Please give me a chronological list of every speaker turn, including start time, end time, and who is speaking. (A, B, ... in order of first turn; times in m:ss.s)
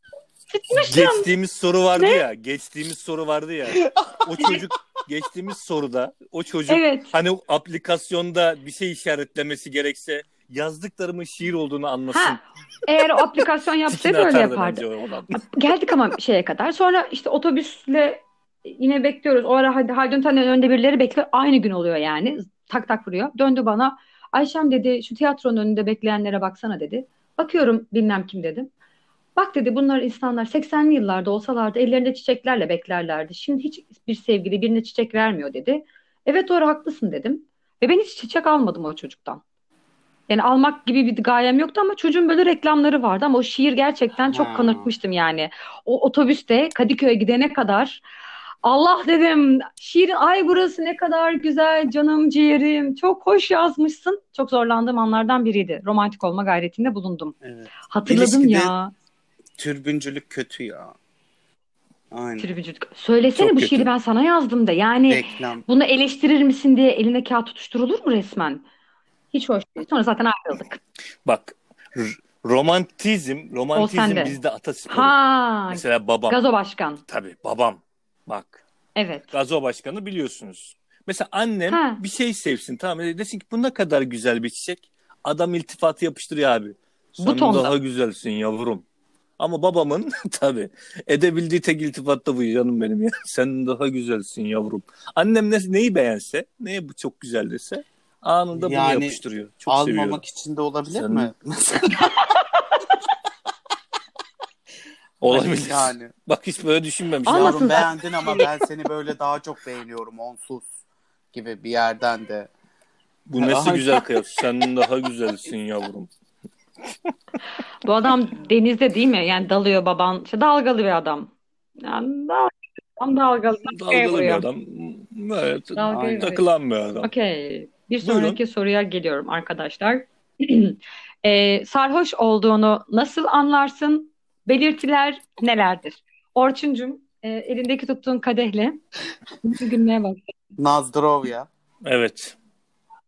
0:00.5-0:01.3 A
0:00.7-0:12.4 B
0:02.0-0:02.2 A
0:03.8-0:04.6 C
0:06.7-0:07.1 A
0:12.1-0:28.7 A
0:13.8-0:15.4 B
0:29.4-0:39.4 A
0:40.3-0:48.0 A
0:44.3-0:44.9 C
0:48.6-0:57.4 A
0:57.4-0:58.7 C
0:57.9-0:58.9 A
0:59.6-1:00.9 C
1:02.1-1:02.5 C
1:02.4-1:08.6 A
1:03.4-1:03.9 B
1:05.1-1:05.6 C
1:09.3-1:10.8 A
1:11.2-1:15.1 B
1:13.7-1:14.4 A
1:14.9-1:17.0 A
1:15.7-1:16.4 B
1:17.1-1:18.6 B
1:19.0-1:19.3 A
1:19.3-1:28.8 B
1:21.7-1:22.0 A
1:27.2-1:27.7 A
1:29.4-1:40.2 B
1:38.5-1:42.2 C
1:40.9-1:41.3 B
1:42.1-1:42.9 A
1:45.2-1:47.8 B
1:45.3-1:46.1 C
1:47.2-1:48.5 A
1:47.3-1:50.7 C
1:51.3-1:52.5 C
1:53.3-1:56.1 B
1:53.4-1:54.2 C
1:57.8-2:04.4 A
2:03.7-2:07.1 B
2:05.7-2:06.4 A
2:07.0-2:18.8 A
2:08.0-2:08.4 B
2:19.4-2:20.2 A
2:20.6-2:21.5 C
2:21.8-2:22.4 B